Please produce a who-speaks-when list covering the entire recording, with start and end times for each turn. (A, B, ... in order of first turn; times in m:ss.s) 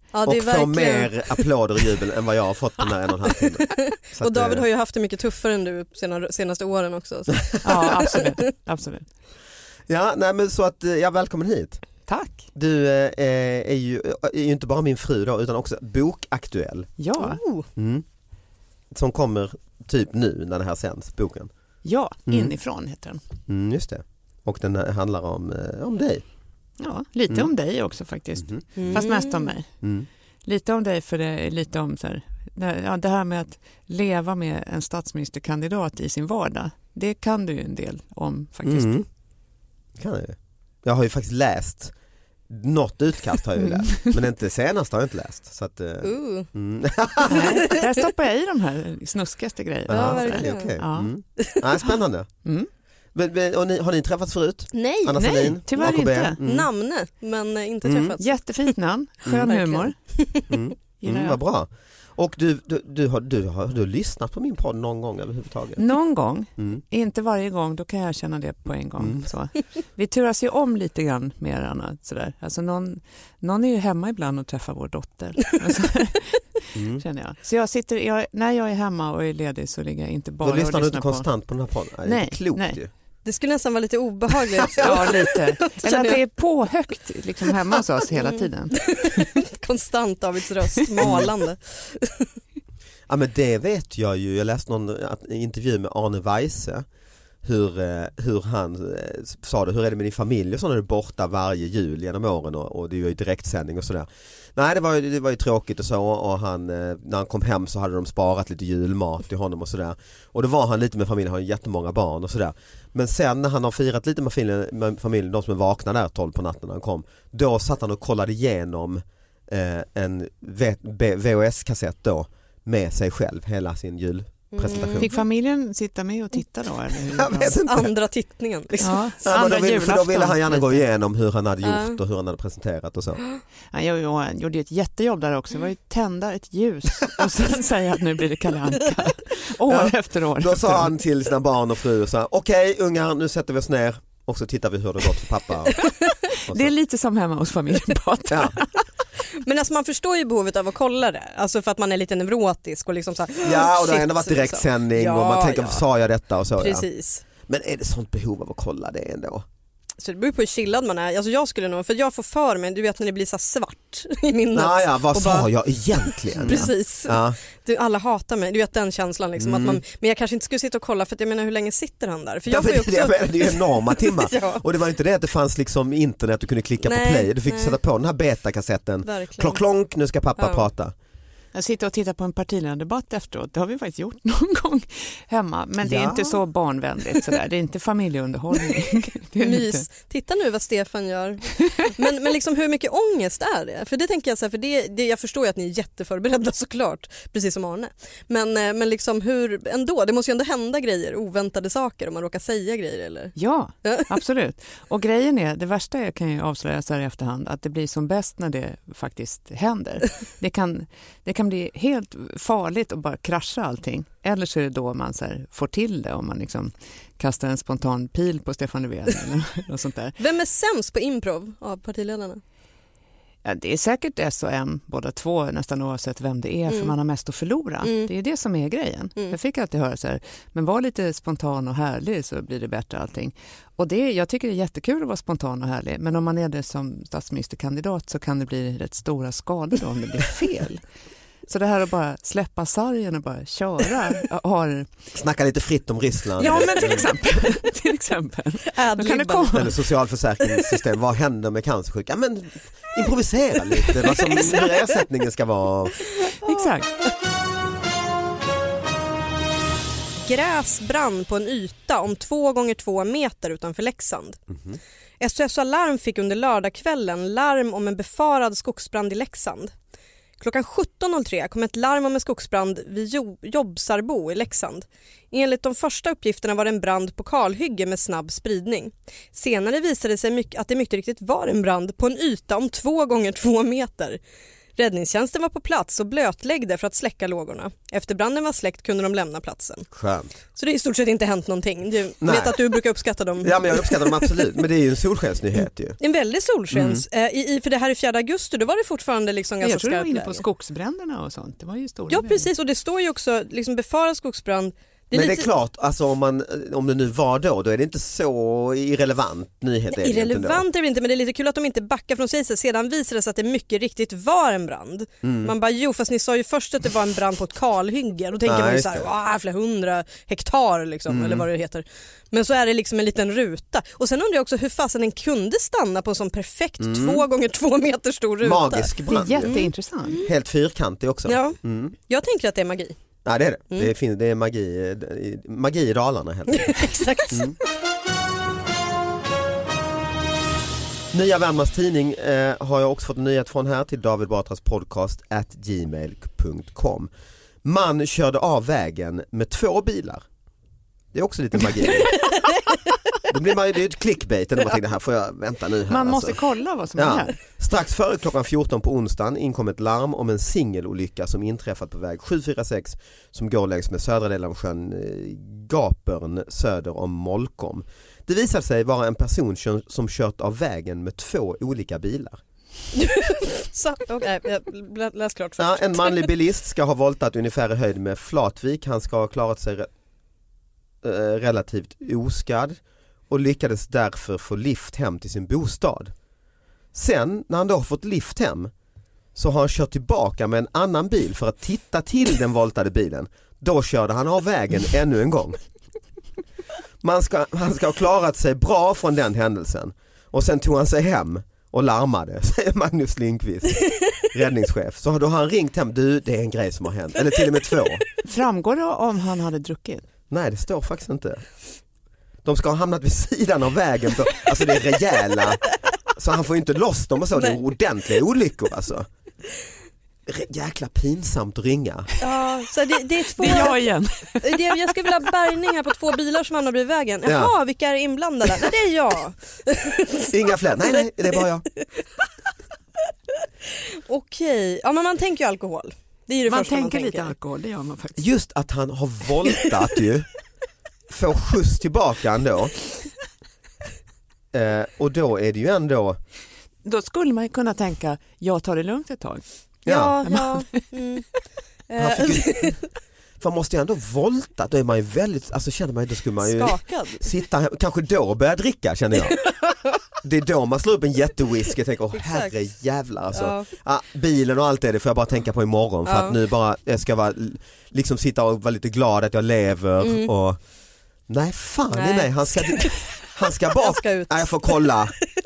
0:00.1-0:01.4 A
0:00.2-0:04.7 B
0:03.7-0:08.3 A
0:07.6-0:09.1 C
0:09.9-0:11.9 B
0:12.1-0:12.5 C
0:12.6-0:16.9 B
0:17.0-0:17.4 C
0:17.2-0:17.6 A
0:17.8-0:18.0 B
0:18.9-0:21.5 B
0:21.8-0:23.2 C
0:23.5-0:26.2 B
0:26.8-0:29.7 C
0:28.4-0:29.0 B
0:28.8-0:29.5 A
0:30.4-0:39.0 C
0:38.6-0:39.1 B
0:40.0-0:41.9 B
0:42.5-0:47.8 B
0:43.7-0:44.1 C
0:46.0-0:46.5 A
0:47.3-0:51.1 C
0:47.3-0:47.8 A
0:49.9-0:52.3 B
0:49.9-0:50.8 A
0:52.4-0:52.7 C
0:53.1-0:56.7 B
0:54.7-0:58.7 A
0:55.2-0:56.4 C
0:57.8-0:58.2 B
0:58.2-1:00.0 C
0:59.3-0:59.5 B
0:59.3-1:00.6 A
1:00.5-1:05.8 B
1:01.0-1:01.4 C
1:05.8-1:21.3 C
1:06.6-1:06.8 B
1:16.8-1:17.0 B
1:20.4-1:22.9 B
1:22.0-1:22.8 C
1:23.2-1:26.2 A
1:24.6-1:25.0 B
1:24.8-1:28.7 C
1:27.8-1:32.3 A
1:31.0-1:31.3 B
1:33.1-1:36.9 B
1:37.4-2:05.1 B
2:04.5-2:05.3 A
2:05.0-2:07.6 C
2:07.1-2:07.9 B
2:07.6-2:09.0 A
2:08.7-2:13.2 B
2:08.8-2:10.8 C
2:11.6-2:12.0 A
2:13.7-2:20.9 C
2:19.7-2:25.8 B
2:26.5-2:28.7 C
2:28.3-2:28.6 B
2:29.4-2:35.8 A
2:33.4-2:36.9 B
2:36.6-2:37.2 A
2:37.4-2:39.4 B
2:40.0-2:54.6 A
2:44.5-2:47.4 B
2:49.4-2:49.8 B
2:52.5-3:00.9 B
2:56.8-2:57.8 A
2:59.0-2:59.6 A
3:00.4-3:00.7 A
3:01.5-3:09.9 C
3:05.8-3:06.4 B
3:09.4-3:24.1 A
3:23.4-3:40.2 C
3:40.2-3:42.4 A
3:43.4-4:00.8 C
3:46.7-3:46.9 A
3:47.8-3:48.1 A
4:01.5-4:04.9 C
4:05.1-4:07.1 B
4:06.4-4:09.8 C
4:08.8-4:09.7 A
4:09.5-4:16.0 B
4:14.0-4:14.7 A
4:16.4-4:16.9 C
4:20.2-4:24.4 A
4:24.5-4:24.8 B
4:25.2-4:29.7 A
4:30.4-4:44.2 A
4:44.8-4:49.9 A
4:49.9-4:50.3 B
4:50.6-4:54.5 A
4:52.2-4:52.6 B
4:53.4-4:56.0 B
4:56.0-5:00.4 A
4:56.7-4:57.0 B
4:59.6-5:02.5 C
5:02.1-5:05.5 A
5:05.1-5:10.7 B
5:09.9-5:30.3 A
5:15.2-5:15.5 B
5:18.4-5:19.1 B
5:21.1-5:21.5 B
5:26.8-5:27.2 B
5:28.4-5:29.6 B
5:29.0-5:30.2 C
5:30.2-5:32.0 B
5:31.3-5:33.0 A
5:33.2-5:37.6 B
5:36.5-5:37.6 A
5:41.1-5:47.1 B
5:47.6-5:50.2 B
5:51.1-5:52.2 B
5:52.0-5:52.6 A
5:53.3-5:56.4 B
5:55.9-5:57.4 C
5:57.0-6:12.4 B
6:13.0-6:16.3 A
6:15.6-6:19.9 B
6:21.0-6:26.1 B
6:26.9-6:28.7 B
6:29.4-6:35.6 B
6:37.0-6:48.0 B
6:48.2-6:50.0 C
6:50.3-6:51.4 B
6:52.4-6:55.6 B
6:56.2-6:59.1 B
7:00.3-7:02.1 B
7:02.2-7:03.9 A
7:03.3-7:05.0 C
7:04.4-7:10.3 A
7:07.2-7:07.5 B
7:10.3-7:11.7 B
7:14.1-7:17.3 A
7:16.5-7:18.3 C
7:18.2-7:20.3 B
7:21.1-7:22.7 B
7:24.5-7:26.2 B
7:26.8-7:29.4 C
7:29.9-7:30.2 B
7:29.9-7:31.2 A
7:30.2-7:30.9 C
7:31.9-7:32.8 A
7:32.0-7:32.8 B
7:33.4-7:39.4 B
7:36.4-7:37.2 A
7:40.2-7:50.6 B
7:42.1-7:42.6 A
7:43.3-7:43.7 A
7:46.1-7:46.4 A
7:50.0-7:50.3 A
7:51.3-7:55.2 B
7:51.9-7:53.0 A
7:53.8-7:54.9 A